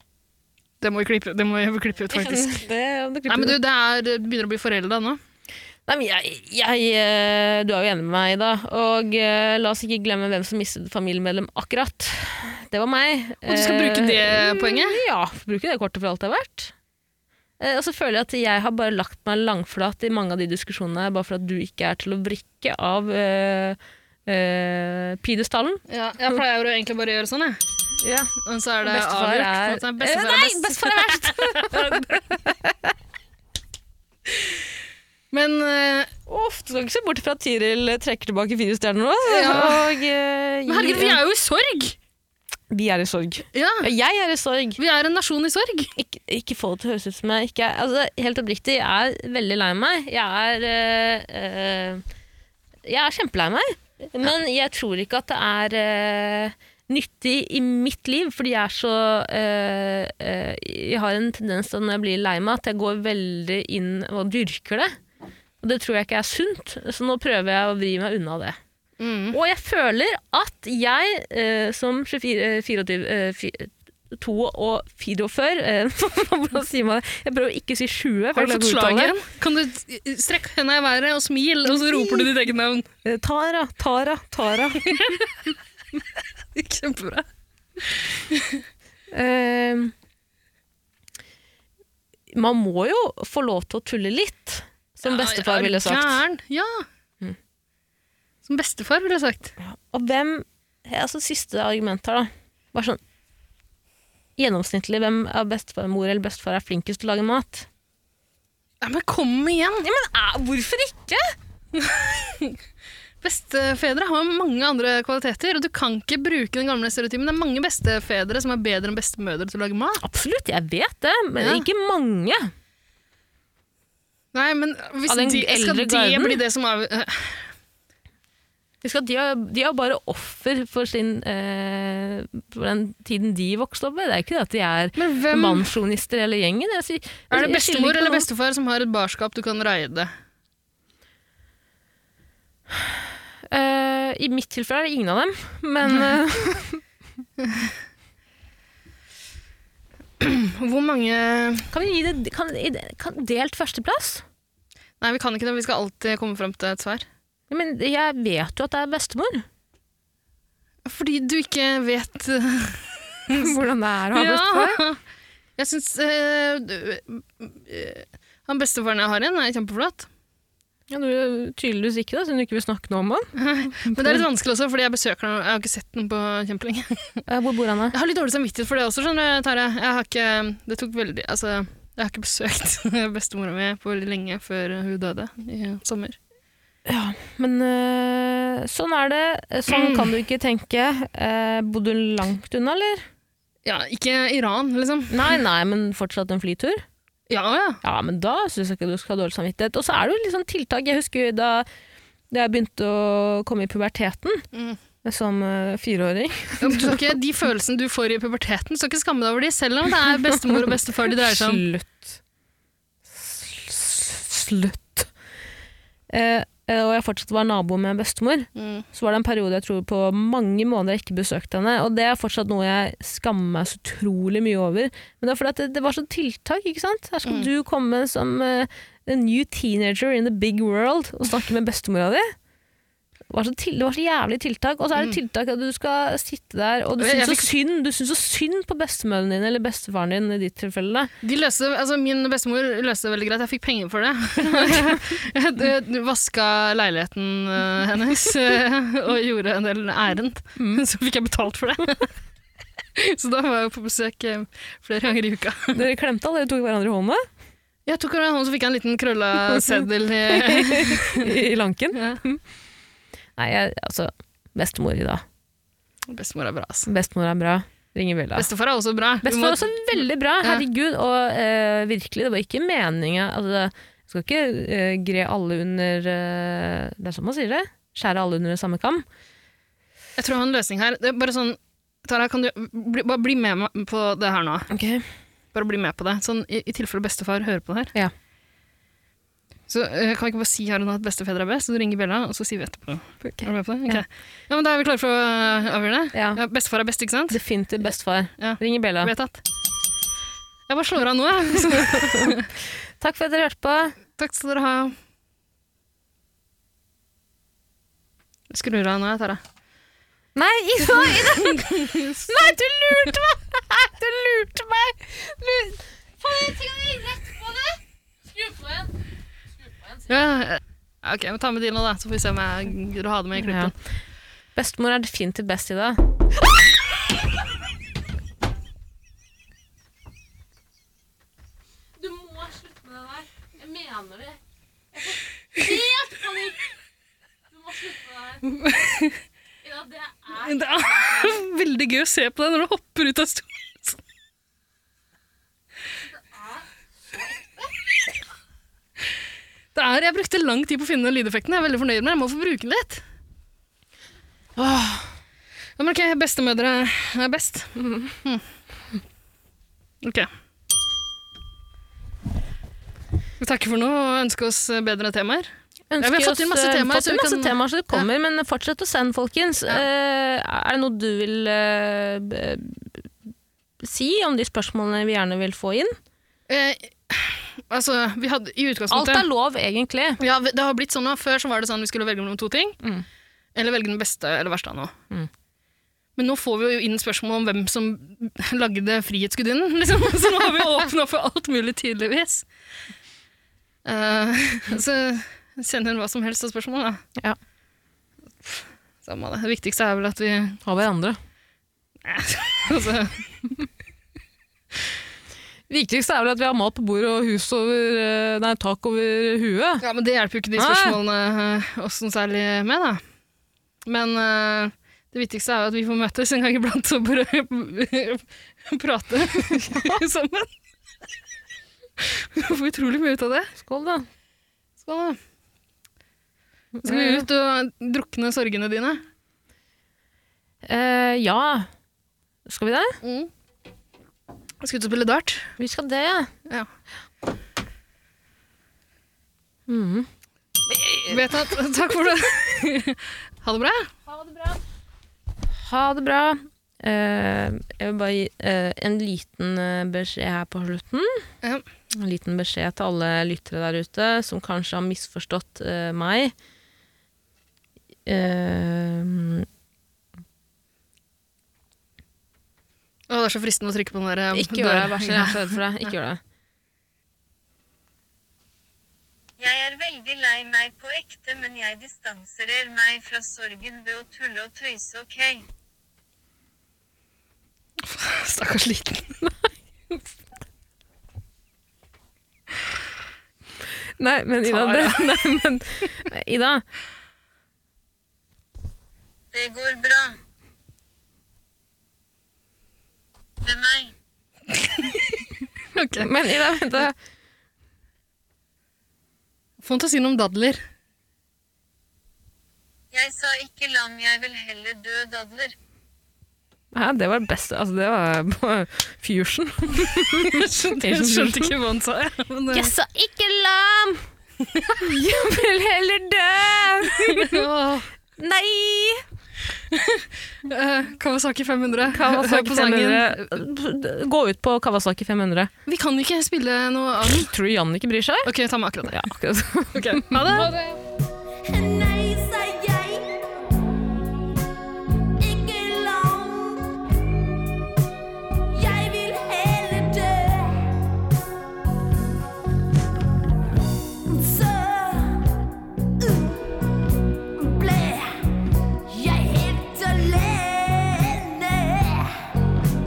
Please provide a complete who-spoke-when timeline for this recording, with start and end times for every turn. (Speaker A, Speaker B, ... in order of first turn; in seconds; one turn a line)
Speaker A: 0.8-2.6
Speaker B: 2.1-3.6
Speaker A: 3.3-5.2
Speaker B: 5.9-16.7
Speaker A: 13.4-15.0
Speaker B: 17.6-26.4
Speaker A: 25.9-27.6
Speaker B: 28.0-32.9
Speaker A: 28.4-32.4
Speaker A: 35.3-36.1
Speaker B: 36.3-41.2
Speaker A: 39.2-39.9
Speaker A: 40.7-42.0
Speaker B: 42.7-44.8
Speaker A: 43.5-43.9
Speaker A: 44.8-45.9
Speaker B: 46.0-52.0
Speaker B: 52.9-65.0
Speaker B: 65.6-68.6
Speaker A: 69.0-69.4
Speaker B: 69.3-79.2
Speaker A: 78.3-82.9
Speaker B: 81.7-82.3
Speaker B: 83.0-85.2
Speaker A: 84.9-85.2
Speaker A: 86.5-87.3
Speaker A: 87.8-88.6
Speaker B: 89.1-89.9
Speaker B: 92.3-96.2
Speaker A: 95.0-96.9
Speaker A: 98.5-99.5
Speaker B: 99.6-103.0
Speaker B: 104.4-107.7
Speaker A: 108.8-109.9
Speaker B: 109.8-111.3
Speaker A: 111.8-112.6
Speaker A: 113.2-120.0
Speaker B: 120.0-122.5
Speaker A: 121.4-121.7
Speaker A: 124.3-127.5
Speaker B: 125.1-126.4
Speaker B: 128.8-138.3
Speaker A: 135.0-135.7
Speaker A: 137.3-140.1
Speaker B: 143.4-146.8
Speaker A: 147.4-147.7
Speaker A: 150.2-151.7
Speaker B: 151.7-154.2
Speaker A: 155.0-157.1
Speaker B: 157.5-159.5
Speaker A: 160.9-163.6
Speaker B: 163.3-164.8
Speaker A: 164.1-165.0
Speaker A: 165.6-170.1
Speaker B: 170.9-173.3
Speaker A: 173.4-177.2
Speaker B: 173.8-174.2
Speaker B: 177.3-177.9
Speaker A: 177.9-186.2
Speaker B: 186.9-193.1
Speaker A: 189.7-190.1
Speaker A: 193.6-195.4
Speaker B: 195.1-196.8
Speaker A: 197.3-197.8
Speaker B: 197.8-201.7
Speaker B: 202.3-204.5
Speaker A: 204.5-204.8
Speaker B: 205.0-207.1
Speaker A: 206.6-211.6
Speaker B: 210.6-212.2
Speaker B: 213.1-215.1
Speaker B: 216.1-232.3
Speaker A: 218.6-218.9
Speaker B: 233.3-241.1
Speaker A: 237.0-237.5
Speaker A: 241.2-252.1
Speaker B: 244.4-245.0
Speaker A: 253.0-255.8
Speaker B: 255.7-257.3
Speaker A: 257.9-261.4
Speaker B: 259.5-262.4
Speaker A: 261.9-262.2
Speaker B: 263.4-265.2
Speaker A: 266.1-266.9
Speaker B: 266.9-268.5
Speaker A: 268.4-270.6
Speaker B: 269.2-279.1
Speaker A: 280.2-284.7
Speaker B: 284.7-285.1
Speaker A: 285.5-287.9
Speaker A: 289.7-297.4
Speaker B: 293.2-294.0
Speaker B: 296.1-296.4
Speaker B: 297.3-299.1
Speaker A: 298.4-299.4
Speaker A: 300.7-302.5
Speaker B: 301.6-302.4
Speaker B: 303.0-304.0
Speaker A: 304.2-304.9
Speaker A: 308.5-309.4
Speaker B: 310.4-319.0
Speaker A: 311.1-312.3
Speaker A: 320.1-323.7
Speaker B: 323.4-323.7
Speaker B: 324.6-326.0
Speaker B: 332.0-334.4
Speaker B: 334.9-336.7
Speaker B: 337.5-338.5
Speaker A: 338.4-339.2
Speaker B: 339.6-341.4
Speaker A: 340.3-344.0
Speaker B: 346.3-346.6
Speaker A: 349.8-353.0
Speaker B: 354.6-355.1
Speaker A: 355.8-358.4
Speaker A: 360.0-360.3
Speaker A: 363.4-368.1
Speaker B: 365.9-373.1
Speaker B: 373.8-376.0
Speaker A: 376.5-379.3
Speaker B: 378.9-380.2
Speaker A: 380.2-382.8
Speaker A: 383.6-384.9
Speaker A: 386.2-392.5
Speaker A: 393.9-397.0
Speaker A: 398.4-400.6
Speaker B: 400.6-401.2
Speaker A: 402.0-403.5
Speaker B: 405.7-409.9
Speaker A: 409.8-413.0
Speaker B: 410.6-411.0
Speaker A: 413.9-420.5
Speaker B: 419.5-420.0
Speaker A: 422.0-423.5
Speaker B: 423.6-424.1
Speaker A: 424.8-425.2
Speaker B: 426.8-427.3
Speaker A: 426.8-429.0
Speaker B: 430.6-431.7
Speaker B: 432.5-433.0
Speaker A: 433.0-433.3
Speaker A: 434.6-435.5
Speaker B: 435.6-436.3
Speaker B: 439.7-440.1
Speaker B: 440.7-441.3
Speaker A: 441.0-443.9
Speaker B: 444.1-444.6
Speaker B: 445.5-451.3
Speaker B: 451.9-456.3
Speaker B: 458.1-459.5
Speaker A: 463.1-465.9
Speaker B: 464.3-466.2
Speaker C: 469.4-475.4
Speaker A: 477.8-479.2
Speaker B: 484.0-486.6
Speaker A: 484.4-485.1
Speaker C: 489.3-490.2
Speaker C: 493.4-493.9
Speaker A: 495.7-496.1
Speaker B: 495.9-496.9
Speaker A: 499.6-500.6
Speaker C: 502.9-505.5
Speaker B: 506.7-511.5
Speaker A: 510.2-512.7
Speaker B: 512.5-514.1
Speaker A: 514.5-514.8
Speaker B: 514.8-517.5
Speaker A: 516.9-517.9
Speaker B: 518.2-519.0
Speaker A: 519.7-523.3
Speaker B: 521.9-525.5
Speaker A: 525.7-527.3
Speaker B: 527.0-528.3
Speaker A: 528.2-529.0
Speaker B: 528.9-530.6
Speaker A: 529.7-530.5
Speaker D: 531.5-533.1
Speaker D: 535.2-536.7
Speaker D: 538.5-540.7
Speaker D: 544.1-545.2
Speaker D: 546.0-546.4
Speaker D: 547.4-548.2
Speaker D: 548.9-552.1